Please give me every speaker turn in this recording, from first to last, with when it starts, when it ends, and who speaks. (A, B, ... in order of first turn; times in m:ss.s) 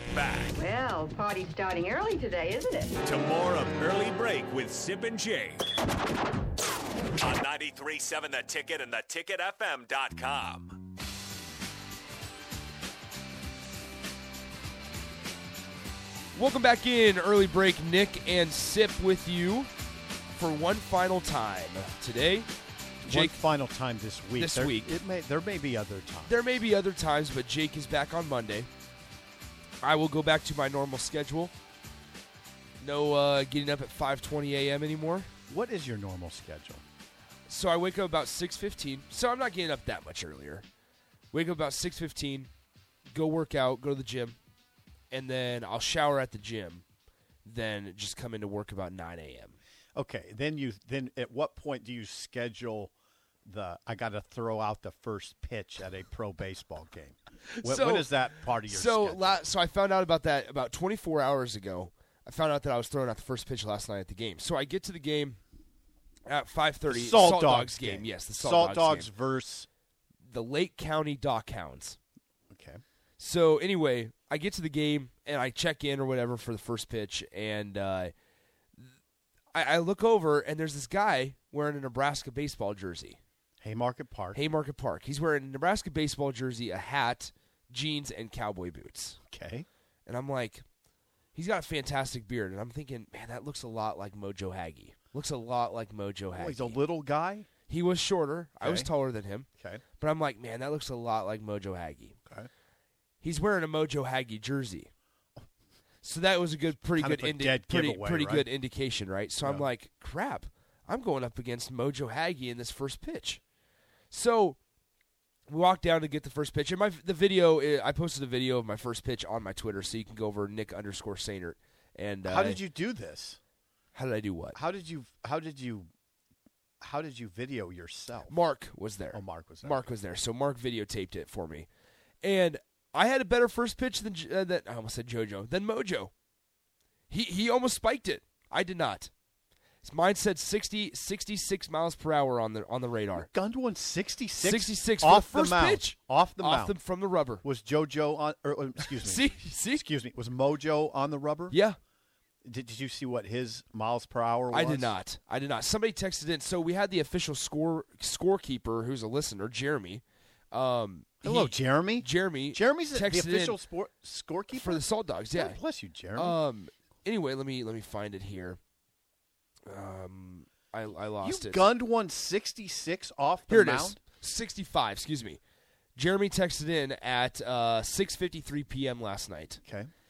0:00.1-0:00.6 A
0:00.6-0:02.9 B
0:03.0-0:05.6 A
0:07.2-0:10.7 A
0:16.3-0:19.7 C
0:20.3-0:22.5 C
0:23.0-0:26.4 D
0:23.0-0:23.4 C
0:24.4-0:24.9 C
0:26.2-0:28.7 C
0:29.8-0:31.5 C
0:32.8-0:35.3 C
0:35.5-0:36.8 D
0:37.5-0:40.6 C
0:41.3-0:42.5 C
0:43.1-0:44.4 C
0:45.1-0:46.8 C
0:47.4-0:49.6 C
0:49.9-0:52.9 D
0:53.5-0:59.4 D
0:57.5-1:05.4 C
1:06.3-1:09.1 C
1:06.9-1:09.7 D
1:10.2-1:12.0 C
1:12.5-1:12.8 D
1:13.2-1:18.1 C
1:19.5-1:23.2 C
1:23.6-1:24.4 D
1:24.3-1:29.2 C
1:29.3-1:29.6 D
1:30.0-1:30.6 C
1:31.3-1:36.8 C
1:36.4-1:37.5 D
1:37.7-1:39.5 C
1:38.6-1:38.9 D
1:39.6-1:39.8 D
1:40.0-1:42.2 C
1:43.2-1:44.9 C
1:46.0-1:53.4 C
1:46.9-1:48.5 D
1:54.1-1:54.6 C
1:55.5-2:02.6 C
2:02.2-2:03.4 D
2:03.9-2:04.6 C
2:04.5-2:05.9 D
2:06.8-2:08.4 D
2:08.3-2:11.7 C
2:09.1-2:09.9 D
2:12.2-2:16.1 C
2:17.1-2:19.1 C
2:19.8-2:23.3 C
2:23.2-2:26.8 D
2:24.4-2:27.4 C
2:27.4-2:31.6 D
2:28.8-2:29.8 C
2:31.5-2:31.8 C
2:32.4-2:35.0 D
2:34.5-2:43.6 C
2:41.2-2:46.4 D
2:44.5-2:45.6 C
2:46.2-2:48.6 C
2:49.7-2:51.7 C
2:51.2-2:54.0 D
2:53.5-2:55.4 C
2:56.0-2:59.6 C
2:59.6-2:59.9 D